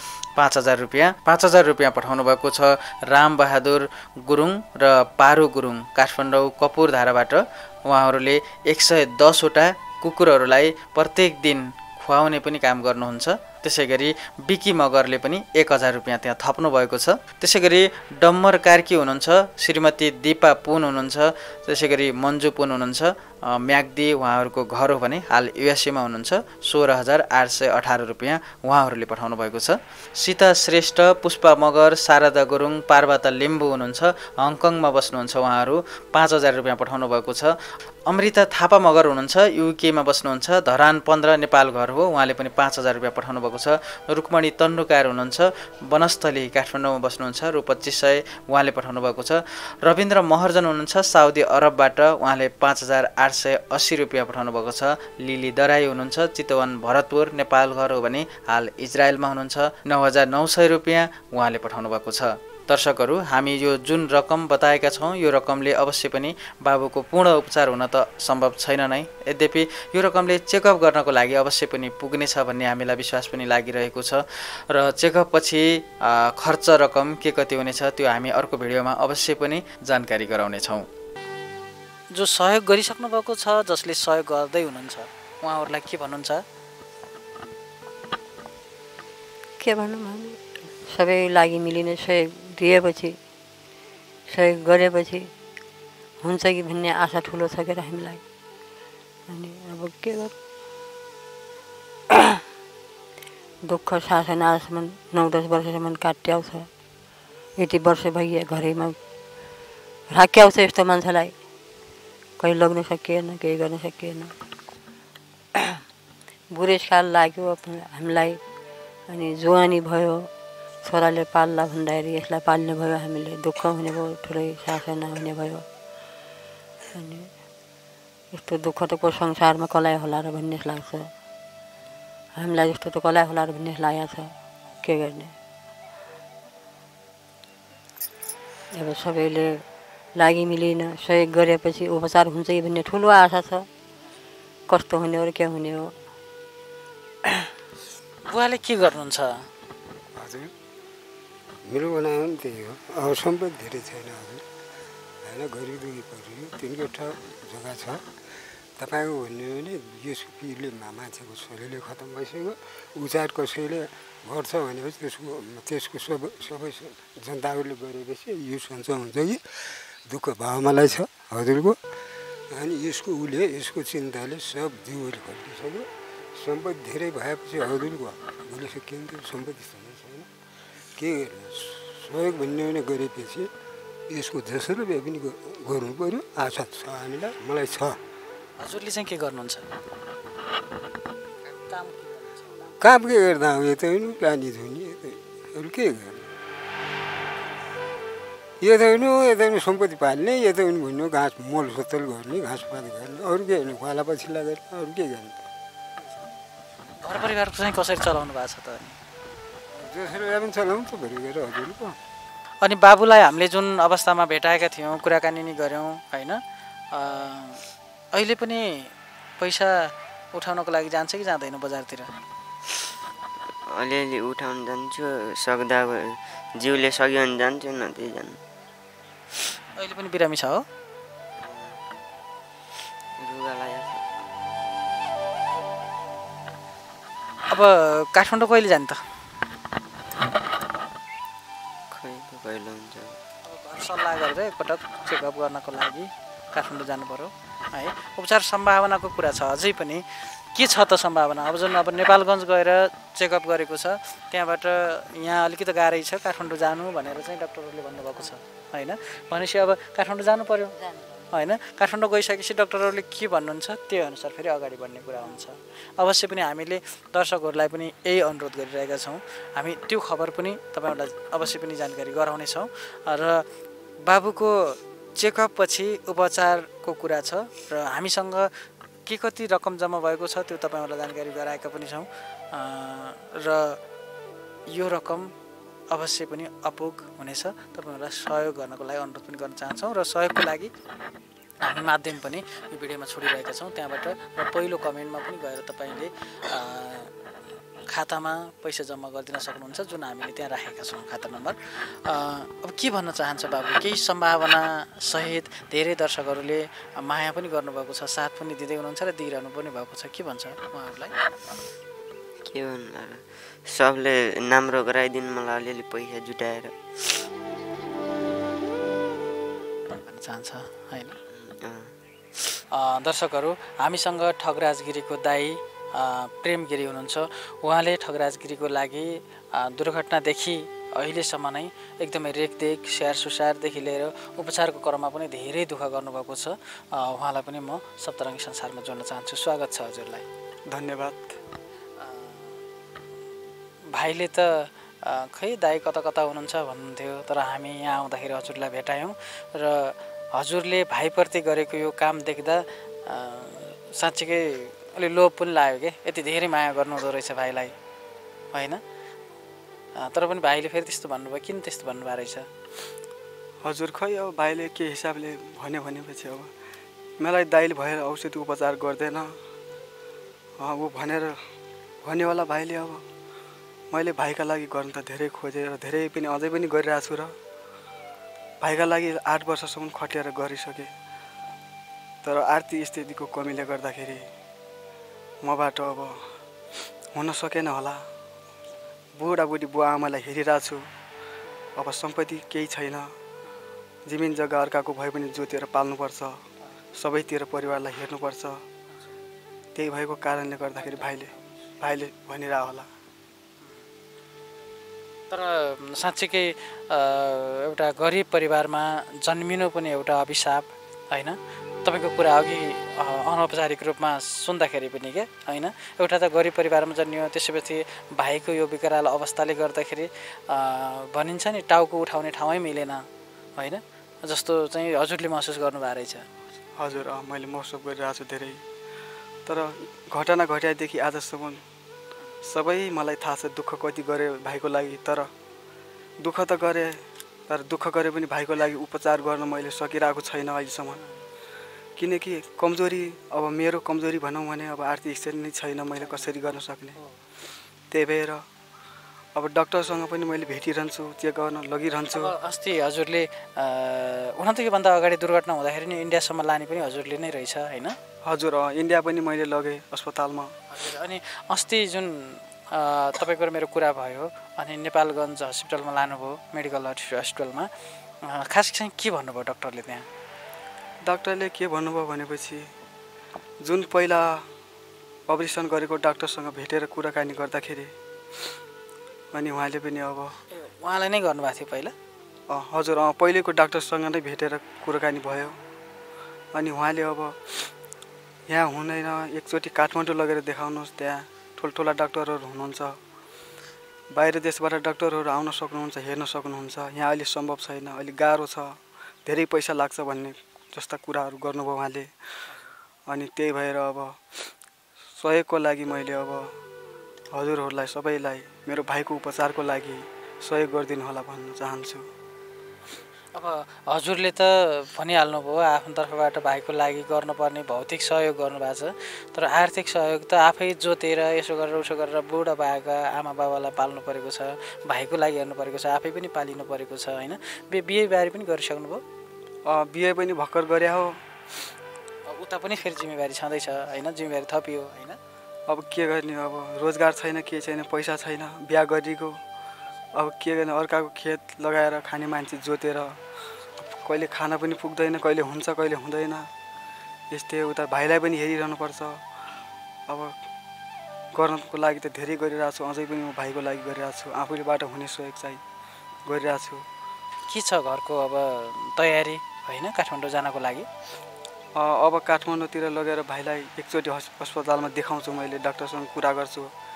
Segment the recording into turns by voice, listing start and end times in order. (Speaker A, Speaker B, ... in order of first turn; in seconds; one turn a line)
Speaker A: 0.4-37.5
Speaker A: 38.0-80.9
Speaker B: 82.1-86.4
Speaker C: 89.6-93.2
Speaker C: 94.3-95.3
Speaker C: 96.2-98.2
Speaker C: 99.3-100.3
Speaker C: 102.1-102.4
Speaker C: 103.7-106.7
Speaker C: 107.6-109.0
Speaker C: 110.1-111.3
Speaker C: 112.4-114.3
Speaker C: 115.5-115.8
Speaker C: 116.5-118.4
Speaker C: 119.1-120.3
Speaker C: 120.8-125.7
Speaker C: 126.9-127.3
Speaker C: 128.3-131.1
Speaker C: 132.3-135.3
Speaker C: 138.8-139.6
Speaker C: 140.2-143.7
Speaker C: 144.7-145.9
Speaker B: 148.2-149.4
Speaker D: 150.1-150.5
Speaker D: 151.7-154.4
Speaker D: 155.2-158.1
Speaker D: 158.8-171.8
Speaker D: 172.5-180.3
Speaker D: 180.9-183.5
Speaker D: 184.1-188.0
Speaker B: 188.6-189.7
Speaker B: 191.5-192.5
Speaker D: 192.8-196.3
Speaker D: 198.6-205.5
Speaker B: 207.0-209.0
Speaker D: 209.7-212.0
Speaker B: 212.6-216.4
Speaker B: 216.9-218.9
Speaker B: 219.4-222.1
Speaker E: 223.8-228.4
Speaker B: 229.8-230.6
Speaker E: 231.4-231.8
Speaker E: 233.2-234.0
Speaker B: 237.5-239.0
Speaker E: 241.9-243.2
Speaker B: 243.4-260.8
Speaker C: 260.8-261.3
Speaker B: 261.3-273.4
Speaker B: 274.0-278.5
Speaker B: 279.1-283.8
Speaker B: 284.7-285.3
Speaker B: 285.9-290.7
Speaker B: 291.6-297.1
Speaker B: 297.9-311.1
Speaker E: 312.4-316.8
Speaker B: 319.9-321.1
Speaker E: 321.3-321.9
Speaker B: 322.7-340.2
Speaker F: 340.7-341.3
Speaker B: 342.0-342.5
Speaker B: 343.9-357.8
Speaker B: 358.5-358.8
Speaker B: 360.0-362.5
Speaker F: 363.6-366.5
Speaker F: 367.2-369.3
Speaker F: 370.6-371.4
Speaker F: 372.0-373.0
Speaker F: 373.9-377.3
Speaker F: 378.6-380.9
Speaker F: 382.2-384.3
Speaker F: 385.4-386.3
Speaker F: 387.1-388.0
Speaker F: 389.1-390.8
Speaker F: 391.8-393.1
Speaker F: 394.1-396.4
Speaker F: 396.9-398.6
Speaker F: 399.8-402.9
Speaker B: 400.8-401.5
Speaker B: 405.3-423.0
Speaker B: 423.6-426.3
Speaker F: 426.8-428.6
Speaker F: 429.5-431.6
Speaker F: 432.4-435.3
Speaker F: 436.2-437.0
Speaker F: 437.5-441.0
Speaker F: 442.0-447.0
Speaker F: 447.9-448.4
Speaker F: 449.3-452.3
Speaker B: 452.1-458.0
Speaker F: 458.2-460.5
Speaker B: 460.7-467.7
Speaker B: 468.2-470.1
Speaker F: 471.0-472.6
Speaker F: 473.6-474.4
Speaker F: 475.3-477.9
Speaker F: 479.3-480.4
Speaker B: 480.5-481.9
Speaker F: 482.5-485.5
Speaker F: 486.5-487.7
Speaker F: 488.5-493.0
Speaker F: 494.1-502.1
Speaker F: 503.1-504.4
Speaker F: 505.2-506.5
Speaker F: 507.3-512.1
Speaker B: 513.3-529.0
Speaker F: 529.6-531.2
Speaker B: 532.3-535.2
Speaker F: 535.7-539.4
Speaker F: 540.1-543.2
Speaker F: 543.8-546.5
Speaker F: 547.3-549.2
Speaker F: 550.1-550.4
Speaker F: 551.3-555.6
Speaker F: 556.3-556.8
Speaker B: 557.5-560.9
Speaker F: 561.8-566.7